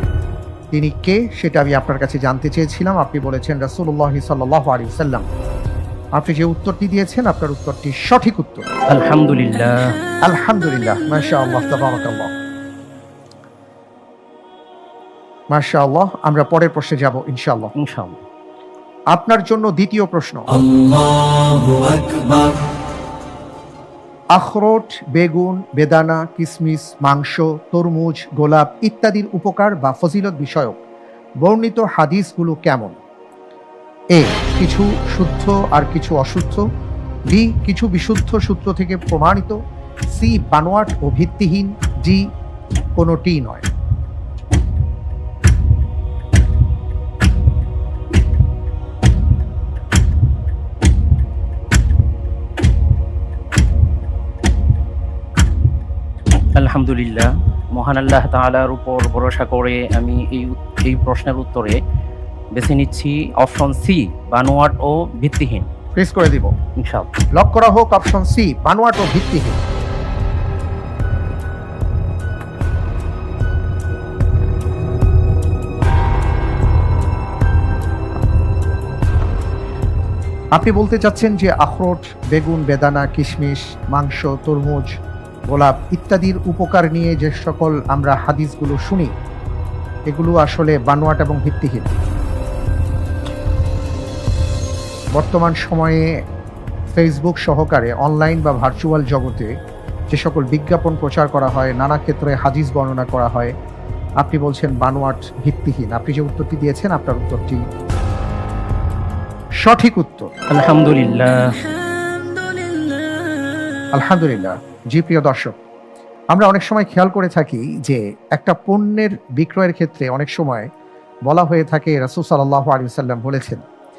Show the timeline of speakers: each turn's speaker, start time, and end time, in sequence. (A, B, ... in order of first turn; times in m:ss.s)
0:00.7-0:05.2 A
0:06.2-0:08.6 A
0:08.9-0:09.9 B
0:10.2-0:12.3 A
0:15.5-0:17.7 A
0:17.8-0:18.2 B
0:19.1-0:20.6 A
0:24.4-0:30.8 A
0:31.4-0:33.0 A
0:34.1-0:36.6 A
0:37.3-0:39.6 A
0:40.2-0:42.2 A
0:43.0-0:43.6 A
0:56.6-1:01.8 B
1:02.6-1:05.6 B
1:06.0-1:06.5 A
1:06.8-1:07.1 B
1:07.4-1:09.6 A
1:20.6-1:24.9 A
1:25.5-1:29.1 A
1:30.1-1:31.9 A
1:35.2-1:36.1 A
1:37.0-1:39.5 A
1:40.1-1:43.5 A
1:44.2-1:47.6 A
1:49.6-1:50.3 A
1:50.5-1:51.6 B
1:53.9-1:55.6 A
1:56.3-2:00.7 A
2:01.3-2:03.6 A